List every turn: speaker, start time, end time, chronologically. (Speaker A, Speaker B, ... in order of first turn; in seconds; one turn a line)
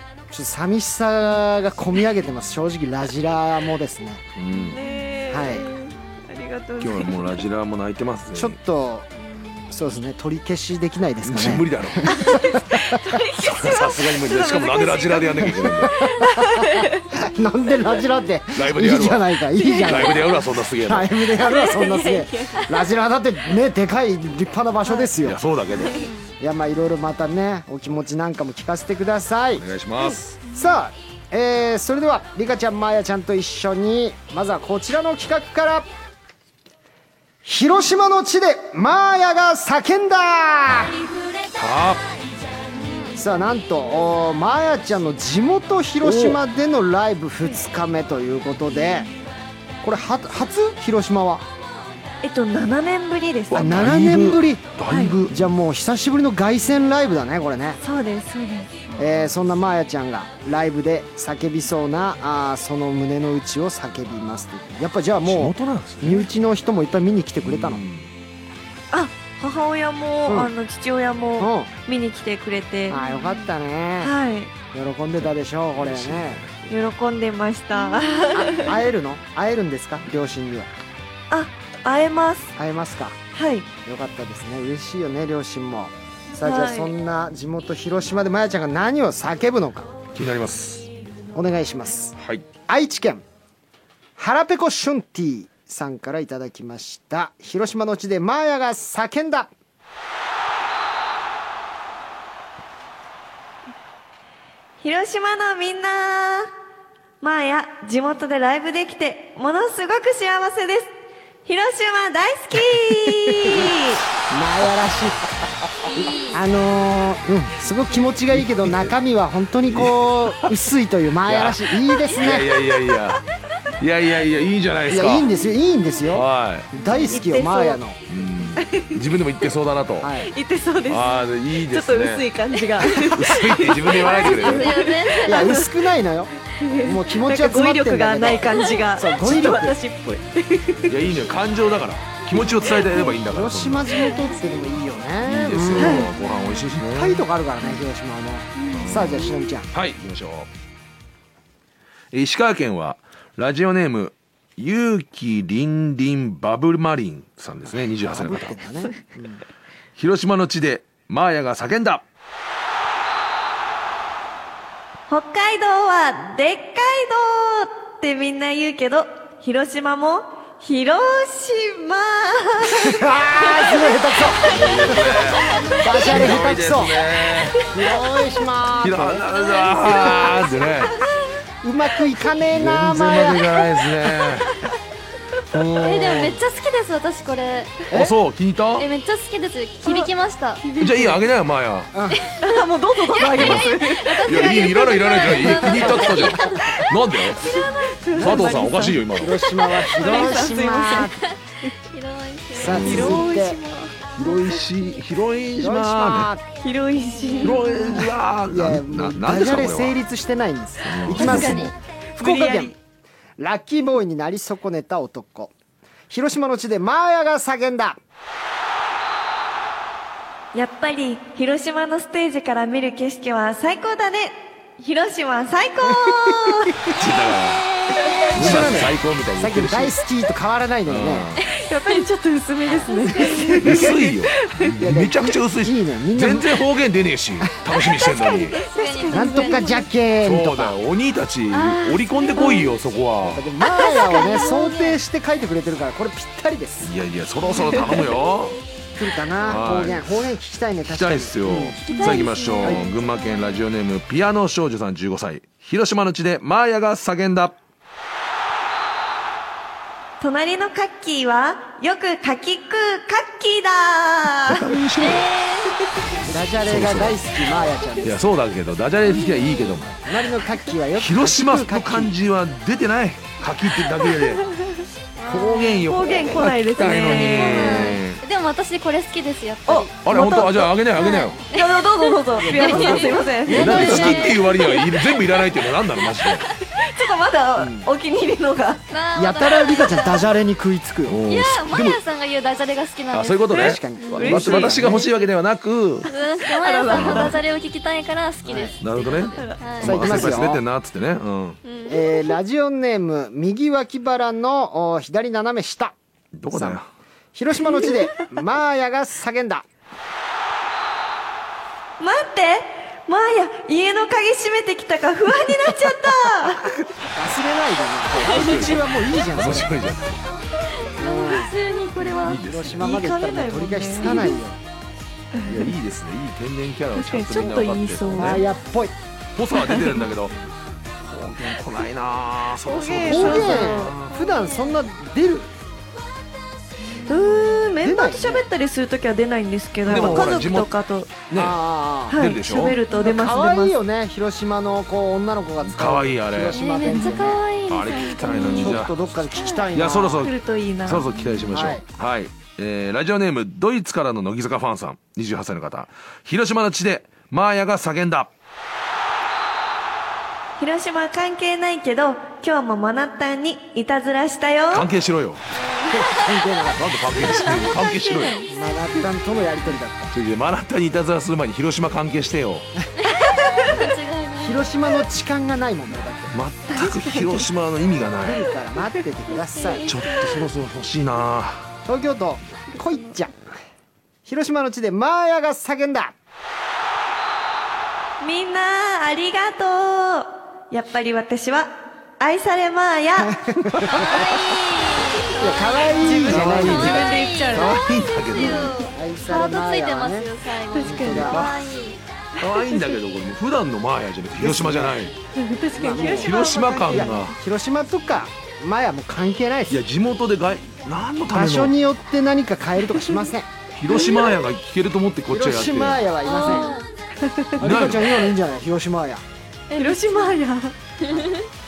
Speaker A: 0.3-4.3
Speaker B: 4.3-4.8
Speaker C: 4.7-7.3
Speaker A: 5.3-5.7
Speaker B: 6.8-8.6
Speaker A: 8.3-9.1
Speaker A: 9.7-13.2
Speaker B: 11.2-12.2
Speaker C: 12.1-17.1
Speaker B: 13.3-16.0
Speaker A: 15.4-25.4
Speaker B: 18.5-19.3
Speaker C: 19.6-20.3
Speaker B: 19.8-21.1
Speaker C: 21.4-22.7
Speaker C: 24.8-25.1
Speaker B: 25.2-26.0
Speaker C: 25.8-26.1
Speaker D: 26.0-26.2
Speaker A: 26.4-29.6
Speaker B: 29.6-30.4
Speaker A: 30.5-35.9
Speaker A: 37.4-41.0
Speaker B: 41.5-42.0
Speaker A: 43.1-49.1
Speaker B: 46.0-46.4
Speaker A: 49.8-51.4
Speaker C: 52.2-53.8
Speaker B: 53.5-55.4
Speaker A: 53.5-54.7
Speaker C: 54.9-55.1
Speaker A: 55.2-57.8
Speaker C: 57.8-58.8
Speaker A: 59.0-67.8
Speaker B: 65.2-66.3
Speaker B: 67.4-68.1
Speaker C: 68.9-73.2
Speaker A: 71.4-71.7
Speaker A: 72.9-74.1
Speaker C: 74.0-74.5
Speaker A: 74.7-76.4
Speaker B: 75.8-76.7
Speaker C: 76.7-78.8
Speaker A: 78.3-80.7
Speaker C: 81.3-82.5
Speaker A: 82.6-83.2
Speaker C: 83.3-83.7
Speaker A: 83.8-89.9
Speaker C: 86.3-86.9
Speaker B: 90.1-90.9
Speaker A: 91.3-93.2
Speaker B: 92.2-92.4
Speaker A: 94.2-99.5
Speaker C: 104.8-106.5
Speaker C: 107.2-114.0
Speaker A: 113.3-113.7
Speaker A: 114.3-115.3
Speaker D: 115.9-116.4
Speaker A: 116.3-122.5
Speaker B: 118.3-118.9
Speaker B: 119.7-120.6
Speaker B: 121.2-123.2
Speaker B: 123.8-125.3
Speaker A: 124.9-128.0
Speaker B: 126.1-126.7
Speaker C: 127.1-127.8
Speaker B: 128.1-130.1
Speaker C: 128.6-129.0
Speaker A: 130.0-130.3
Speaker C: 130.2-135.7
Speaker B: 130.9-132.3
Speaker B: 132.9-134.7
Speaker D: 134.0-135.6
Speaker A: 135.2-139.8
Speaker C: 136.5-141.0
Speaker B: 140.8-143.9
Speaker A: 143.2-146.1
Speaker B: 145.2-147.2
Speaker C: 145.8-146.1
Speaker A: 146.9-149.7
Speaker B: 148.7-150.5
Speaker B: 152.1-158.6
Speaker A: 158.0-159.4
Speaker B: 160.0-162.0
Speaker C: 165.1-176.2
Speaker A: 172.7-175.1
Speaker B: 174.4-177.6
Speaker A: 175.8-176.9
Speaker C: 177.4-178.3
Speaker A: 177.7-179.2
Speaker B: 178.8-181.0
Speaker C: 179.3-181.1
Speaker D: 179.7-180.5
Speaker A: 181.6-183.6
Speaker B: 182.5-184.5
Speaker B: 185.5-186.4
Speaker D: 185.8-187.8
Speaker B: 187.9-188.9
Speaker D: 188.8-190.7
Speaker C: 190.6-191.2
Speaker B: 190.8-191.9
Speaker A: 191.9-192.3
Speaker D: 192.1-198.8
Speaker C: 192.4-194.4
Speaker B: 193.3-197.6
Speaker A: 195.6-196.0
Speaker C: 197.4-199.1
Speaker B: 198.1-199.4
Speaker A: 199.1-201.2
Speaker C: 199.7-201.7
Speaker D: 201.2-203.2
Speaker A: 202.5-203.6
Speaker C: 202.7-204.2
Speaker B: 202.7-203.2
Speaker B: 204.2-206.3
Speaker A: 205.6-206.4
Speaker C: 206.6-207.7
Speaker D: 207.2-207.6
Speaker B: 207.4-210.0
Speaker A: 208.5-212.7
Speaker B: 210.8-211.7
Speaker C: 211.1-212.7
Speaker D: 211.1-211.7
Speaker A: 213.4-215.5
Speaker A: 216.1-218.0
Speaker C: 220.5-226.8
Speaker A: 226.0-226.7
Speaker B: 226.9-227.7
Speaker D: 227.9-228.3
Speaker C: 228.0-228.3
Speaker A: 228.3-231.2
Speaker B: 228.3-229.9
Speaker B: 230.8-231.5
Speaker C: 231.6-234.8
Speaker D: 232.7-233.6
Speaker B: 233.6-238.6
Speaker A: 234.8-236.6
Speaker C: 238.0-239.9
Speaker D: 238.2-239.7
Speaker A: 239.1-240.8
Speaker B: 240.2-243.4
Speaker D: 241.5-242.7
Speaker A: 243.2-246.9
Speaker D: 243.6-245.0
Speaker B: 246.8-248.6
Speaker A: 248.9-252.8
Speaker B: 249.4-250.2
Speaker B: 250.8-257.6
Speaker D: 251.9-253.0
Speaker C: 260.2-264.7
Speaker B: 264.5-265.3
Speaker D: 265.0-265.8
Speaker A: 266.2-268.2
Speaker B: 266.6-267.2
Speaker B: 268.0-270.0
Speaker D: 269.1-269.7
Speaker A: 270.0-272.1
Speaker B: 270.9-274.4
Speaker C: 274.3-274.6
Speaker D: 275.2-275.8
Speaker B: 275.3-278.2
Speaker C: 275.6-278.0
Speaker D: 277.1-279.9
Speaker C: 279.7-280.7
Speaker B: 280.0-281.4
Speaker D: 280.9-284.9
Speaker C: 281.5-284.4
Speaker A: 282.4-284.3
Speaker B: 283.5-286.4
Speaker C: 286.2-288.8
Speaker A: 287.6-287.9
Speaker D: 288.9-290.4
Speaker A: 289.1-291.2
Speaker B: 291.1-292.0
Speaker D: 291.3-294.3
Speaker B: 293.1-296.1
Speaker A: 293.5-295.0
Speaker C: 294.1-295.1
Speaker D: 296.1-300.3
Speaker C: 296.4-297.4
Speaker B: 296.9-297.4
Speaker A: 298.4-298.7
Speaker B: 298.8-301.6
Speaker C: 299.3-299.8
Speaker A: 299.8-300.6
Speaker D: 301.6-302.3
Speaker A: 301.9-305.9
Speaker B: 306.4-306.9
Speaker A: 306.5-306.8
Speaker A: 307.3-309.6
Speaker C: 312.0-316.7
Speaker A: 317.1-319.7
Speaker B: 318.1-320.2
Speaker D: 320.8-322.4
Speaker A: 321.0-321.5
Speaker B: 322.0-322.9
Speaker A: 322.2-324.6
Speaker C: 322.8-324.4
Speaker C: 325.3-325.7
Speaker B: 325.4-328.4
Speaker C: 326.9-328.4
Speaker A: 328.1-328.9
Speaker B: 329.3-330.4
Speaker C: 329.6-330.0
Speaker B: 331.0-334.2
Speaker C: 332.6-334.0
Speaker A: 333.0-335.5
Speaker C: 337.0-341.2
Speaker A: 337.8-338.4
Speaker B: 339.8-340.7
Speaker A: 339.9-340.3
Speaker B: 341.3-341.6
Speaker A: 341.3-342.2
Speaker C: 342.1-343.8
Speaker B: 342.1-342.8
Speaker A: 343.0-347.4
Speaker B: 345.6-346.6
Speaker D: 346.5-349.7
Speaker B: 347.7-348.9
Speaker A: 348.5-350.3
Speaker B: 349.7-350.3
Speaker C: 350.2-351.1
Speaker B: 350.8-358.3
Speaker D: 351.1-351.5
Speaker A: 351.5-351.8
Speaker C: 360.6-364.9
Speaker B: 364.7-365.4
Speaker A: 365.9-366.8
Speaker B: 366.8-368.4
Speaker C: 367.6-368.6
Speaker A: 368.5-370.1
Speaker B: 370.1-372.6
Speaker D: 373.0-374.7
Speaker C: 373.1-373.9
Speaker A: 374.4-376.4
Speaker B: 376.3-378.4
Speaker C: 376.7-377.4
Speaker A: 378.2-379.9
Speaker D: 379.7-380.2
Speaker B: 379.8-381.7
Speaker A: 381.9-383.5
Speaker A: 384.2-386.1
Speaker C: 388.2-393.4
Speaker A: 393.2-394.3
Speaker D: 393.9-395.9
Speaker A: 395.3-397.6
Speaker C: 395.4-397.8
Speaker B: 396.3-398.8
Speaker D: 396.6-402.0
Speaker A: 398.2-401.4
Speaker C: 400.7-401.3
Speaker B: 401.1-401.9
Speaker B: 402.4-405.1
Speaker C: 402.4-402.9
Speaker A: 404.4-405.0
Speaker C: 405.3-407.2
Speaker A: 405.7-406.4
Speaker B: 406.0-407.4
Speaker A: 406.9-409.8
Speaker B: 409.7-411.7
Speaker A: 411.3-413.5
Speaker B: 413.8-416.0
Speaker C: 413.9-414.3
Speaker A: 415.3-416.7
Speaker D: 416.2-416.9
Speaker C: 416.4-417.7
Speaker B: 417.6-418.1
Speaker A: 417.6-419.2
Speaker D: 419.7-420.4
Speaker C: 419.7-420.8
Speaker D: 421.0-421.4